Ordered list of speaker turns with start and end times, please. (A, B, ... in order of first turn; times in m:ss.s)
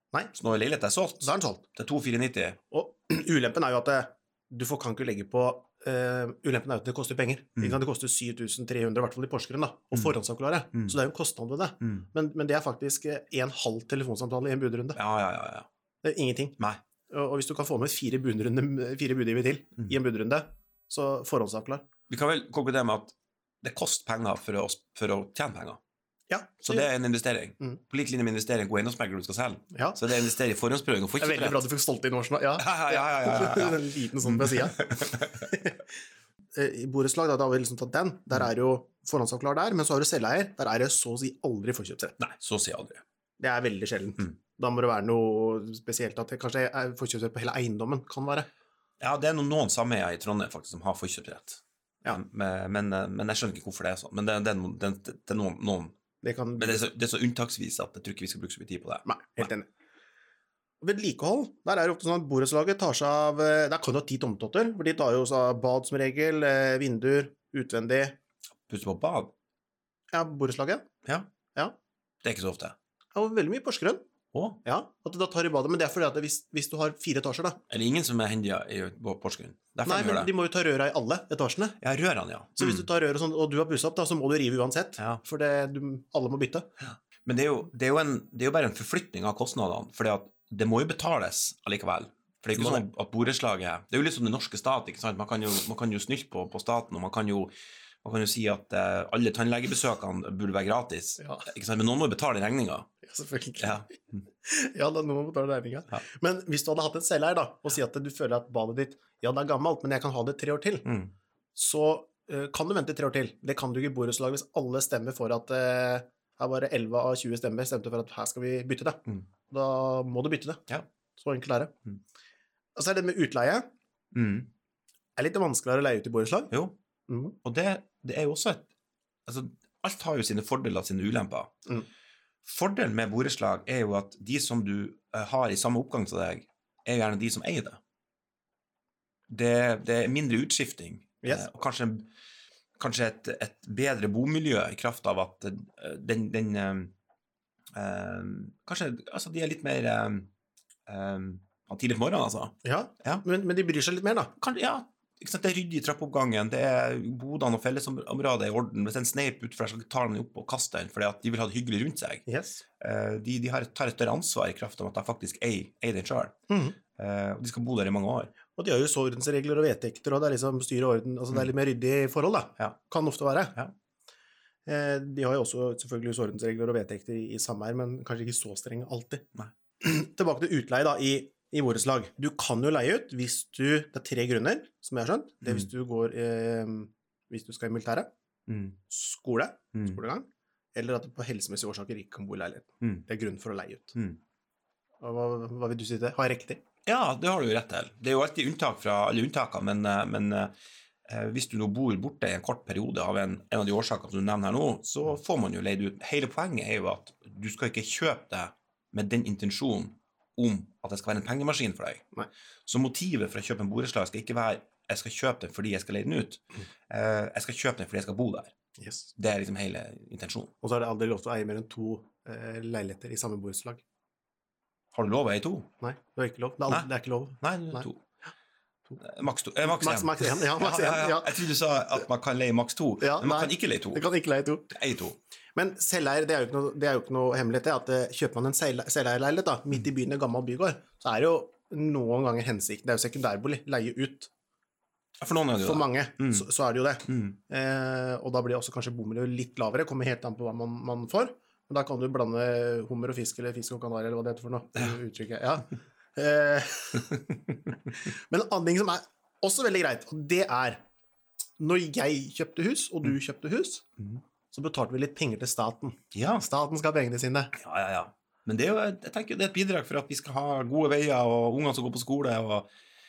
0:00.3-0:02.6 A
0:01.2-0:01.6 B
0:02.7-0:15.0 B
0:11.8-0:12.1 A
0:15.0-0:15.7 A
0:16.0-0:16.6 B
0:17.1-0:21.9 B
0:22.1-0:25.8 A
0:26.3-0:26.9 B
0:26.6-0:31.7 A
0:29.7-0:30.0 B
0:31.2-0:35.8 B
0:32.6-0:35.5 A
0:36.6-0:42.2 B
0:42.2-0:43.0 A
0:43.4-0:48.5 B
0:49.0-0:56.0 A
0:56.2-0:56.8 B
0:56.6-0:59.5 A
0:59.1-0:59.7 B
1:00.8-1:08.2 B
1:08.7-1:09.3 A
1:10.1-1:10.9 B
1:12.2-1:12.8 A
1:13.2-1:14.0 B
1:14.3-1:14.6 A
1:14.6-1:17.6 B
1:17.7-1:20.3 A
1:19.8-1:21.8 B
1:21.8-1:22.9 A
1:22.6-1:26.7 B
1:27.2-1:37.5 A
1:32.6-1:32.8 B
1:38.0-1:42.9 A
1:41.2-1:41.5 B
1:43.0-1:50.9 B
1:43.6-1:44.2 A
1:50.8-1:51.1 A
1:51.6-2:01.7 B
2:02.8-2:03.7 B
2:04.1-2:04.5 A
2:05.2-2:06.5 B
2:07.1-2:07.4 B
2:07.4-2:08.7 A
2:09.3-2:11.6 A
2:12.4-2:17.8 A
2:19.3-2:22.1 A
2:22.8-2:26.9 A
2:27.7-2:30.3 A
2:30.9-2:33.2 A
2:32.6-2:34.3 B
2:34.4-2:42.2 A
2:42.3-2:42.6 B
2:42.8-2:46.4 A
2:46.5-2:46.8 B
2:47.0-2:48.3 A
2:48.6-2:53.6 B
2:54.7-2:59.3 B
2:59.8-3:08.1 B
3:08.5-3:08.8 A
3:08.9-3:14.0 B
3:15.0-3:16.6 B
3:16.9-3:20.5 A
3:21.1-3:32.0 A
3:32.7-3:38.5 A
3:38.8-3:39.1 B
3:39.2-3:40.5 A
3:40.6-3:43.8 B
3:44.9-3:45.7 A
3:45.8-3:47.9 B
3:47.4-3:48.0 A
3:49.0-3:54.0 A
3:49.6-3:51.4 B
3:53.0-3:54.8 B
3:54.7-3:55.2 A
3:55.6-4:04.3 B
4:05.2-4:06.5 A
4:05.6-4:17.2 B
4:07.1-4:07.4 A
4:17.9-4:20.8 B
4:21.6-4:23.8 B
4:24.5-4:27.5 B
4:26.1-4:26.5 A
4:27.5-4:32.7 A